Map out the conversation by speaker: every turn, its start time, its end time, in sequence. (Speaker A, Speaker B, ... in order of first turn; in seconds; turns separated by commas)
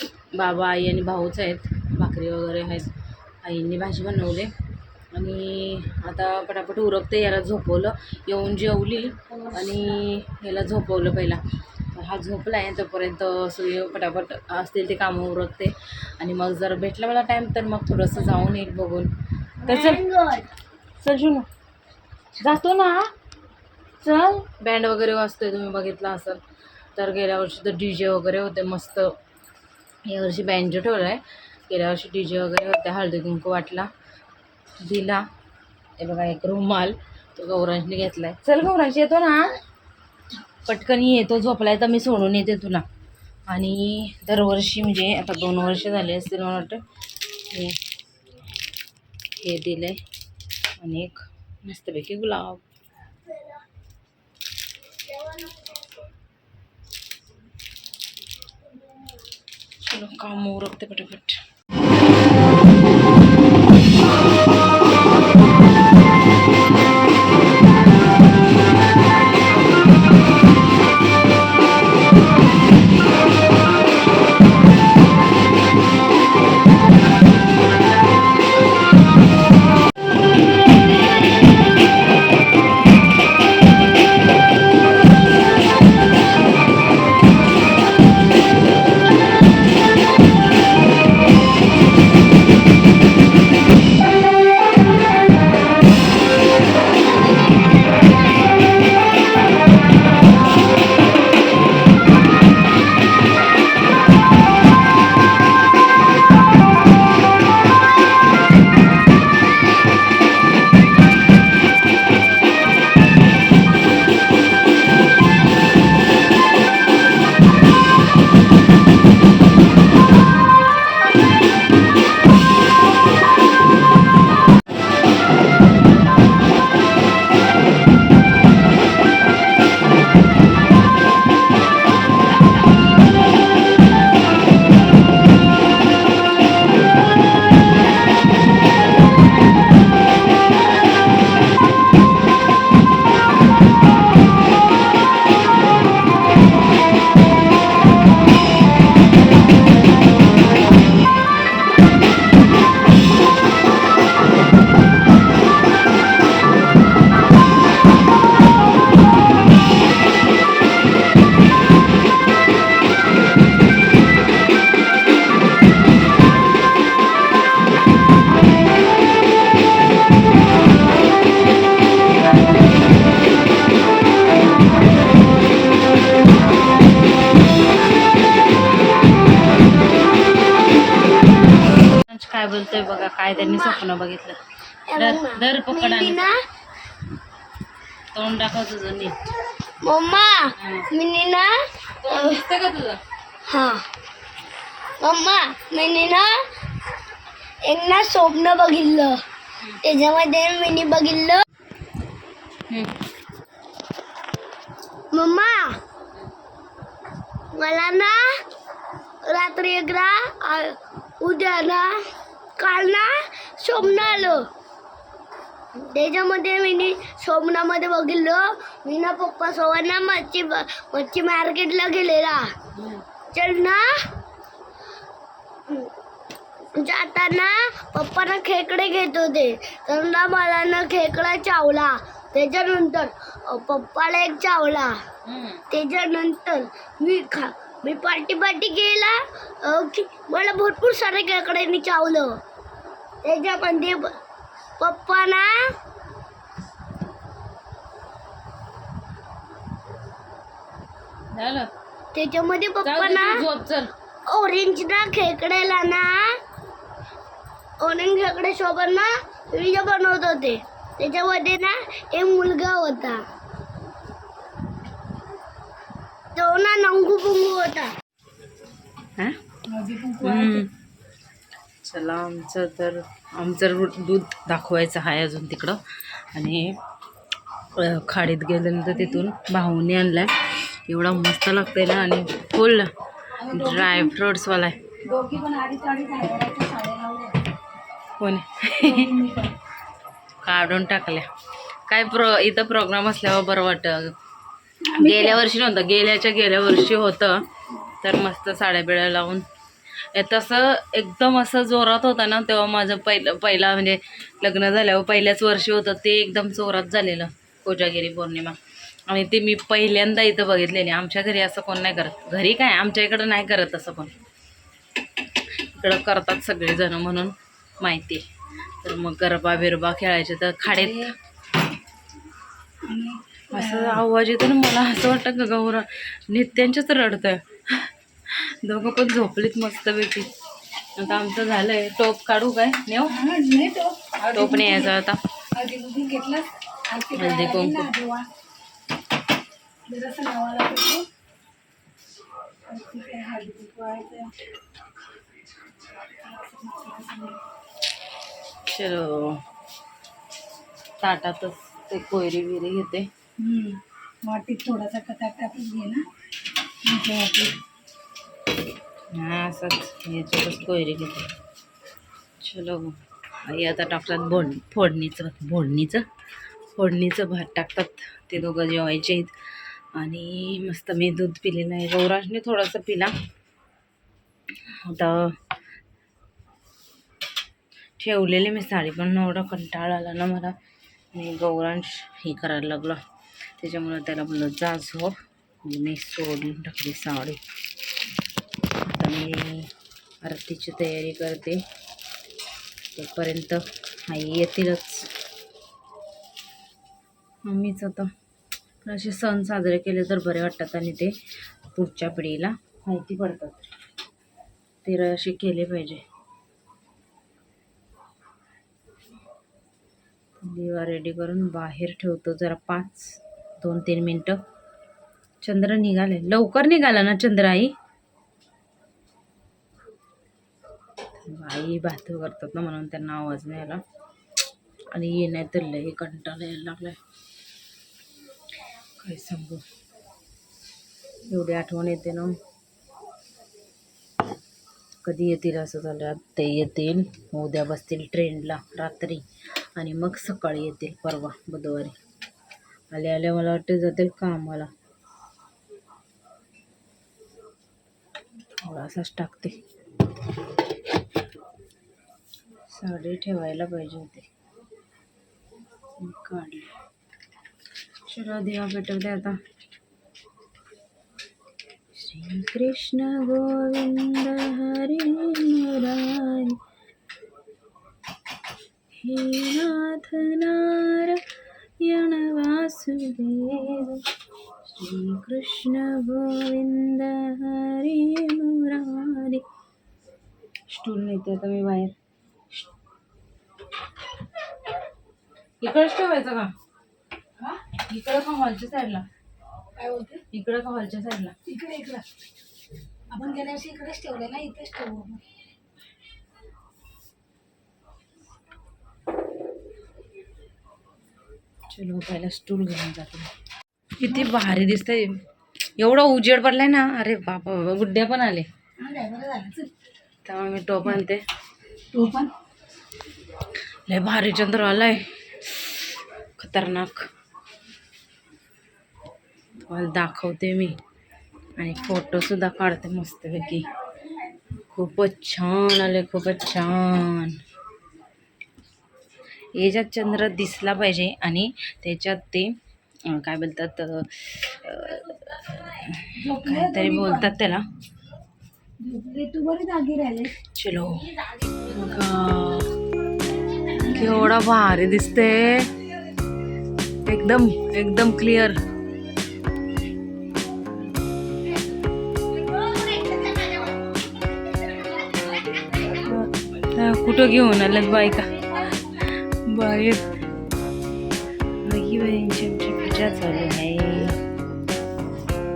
Speaker A: 0.3-2.9, Speaker A: 3.4-4.5, Speaker A: 5.1-19.1, Speaker B: 19.6-20.5, Speaker A: 19.6-20.0, Speaker A: 21.0-21.5, Speaker A: 22.4-23.1, Speaker A: 24.0-26.4, Speaker A: 26.9-29.1, Speaker A: 30.1-33.9, Speaker A: 34.8-35.2, Speaker A: 36.0-39.5, Speaker A: 40.6-42.9, Speaker A: 43.5-46.8, Speaker A: 47.5-47.8, Speaker A: 49.4-50.0, Speaker A: 50.8-52.6, Speaker A: 59.8-61.4, Speaker A: 181.9-184.4, Speaker B: 184.9-186.4, Speaker A: 184.9-186.3, Speaker A: 188.1-189.2, Speaker B: 189.8-192.4, Speaker A: 190.6-190.9, Speaker A: 192.0-193.0, Speaker B: 193.5-193.8, Speaker B: 195.0-196.4, Speaker B: 197.7-199.2, Speaker B: 199.8-201.4, Speaker B: 205.1-205.8, Speaker B: 207.5-208.4, Speaker B: 209.2-212.0, Speaker B: 212.6-214.5, Speaker A: 213.8-214.3, Speaker B: 215.7-222.5, Speaker B: 223.3-224.0, Speaker B: 226.8-235.0, Speaker A: 235.2-235.6, Speaker B: 235.7-242.4, Speaker B: 243.2-244.2, Speaker B: 244.8-245.7, Speaker A: 251.3-251.7, Speaker B: 252.1-253.4, Speaker A: 252.8-253.9, Speaker B: 254.2-256.4, Speaker B: 257.8-263.2, Speaker B: 266.3-267.9, Speaker C: 269.7-270.6, Speaker A: 270.2-270.7, Speaker A: 271.8-275.8, Speaker A: 276.3-276.8, Speaker A: 277.8-282.9, Speaker C: 283.4-284.1, Speaker A: 283.5-284.8, Speaker C: 285.0-287.4, Speaker A: 288.2-289.1, Speaker C: 288.8-289.5, Speaker A: 290.4-291.3, Speaker A: 291.9-294.1, Speaker C: 294.9-295.4, Speaker A: 294.9-297.4, Speaker A: 298.0-299.4, Speaker A: 300.1-308.6, Speaker A: 309.1-314.1, Speaker A: 315.7-318.3, Speaker A: 318.8-321.1, Speaker C: 320.7-321.0, Speaker C: 322.9-324.0, Speaker A: 323.5-330.3, Speaker A: 330.9-333.1, Speaker C: 333.1-334.9, Speaker A: 334.3-335.2, Speaker C: 335.6-338.3, Speaker A: 337.1-337.9, Speaker C: 339.9-341.0, Speaker C: 342.7-344.3, Speaker C: 346.2-347.4, Speaker A: 348.6-349.4, Speaker A: 351.0-353.1, Speaker C: 353.4-356.1, Speaker C: 356.8-357.6, Speaker A: 359.1-361.3, Speaker A: 362.4-366.1, Speaker A: 366.8-369.3, Speaker A: 369.9-373.1, Speaker A: 374.8-375.4, Speaker A: 378.0-380.5, Speaker A: 381.1-383.0, Speaker A: 383.6-387.4, Speaker A: 388.8-391.6, Speaker A: 392.9-395.1, Speaker A: 397.4-398.1, Speaker A: 398.8-401.1, Speaker A: 401.7-403.7, Speaker A: 404.8-406.0, Speaker A: 410.4-414.4, Speaker A: 415.4-417.7, Speaker A: 421.2-423.8, Speaker A: 424.9-427.0, Speaker A: 429.0-429.6, Speaker A: 431.3-432.4, Speaker A: 435.0-439.2, Speaker A: 439.8-441.9, Speaker A: 442.9-444.7, Speaker A: 448.6-449.6, Speaker A: 452.7-454.3, Speaker A: 456.0-456.7, Speaker A: 458.1-459.4, Speaker A: 461.9-466.6, Speaker A: 469.0-471.2, Speaker A: 471.8-474.0, Speaker A: 474.6-479.4, Speaker A: 480.7-481.9, Speaker A: 485.6-486.5, Speaker A: 487.9-489.1, Speaker C: 489.8-490.2, Speaker A: 490.3-491.3, Speaker C: 491.4-492.0, Speaker C: 493.1-495.2, Speaker A: 501.7-503.3, Speaker A: 504.0-505.2, Speaker A: 505.8-508.5, Speaker C: 508.8-509.7, Speaker A: 510.2-511.2, Speaker C: 511.9-512.3, Speaker A: 513.9-515.8, Speaker A: 516.4-517.1, Speaker A: 519.6-520.8, Speaker A: 521.6-523.7, Speaker A: 524.7-527.4, Speaker A: 529.5-532.5, Speaker A: 533.1-537.6, Speaker C: 536.2-537.3, Speaker C: 538.8-540.3, Speaker A: 540.5-542.7, Speaker C: 543.8-544.3, Speaker A: 543.9-545.7, Speaker A: 547.0-548.6, Speaker A: 556.0-558.3, Speaker A: 558.9-560.0, Speaker A: 561.6-564.2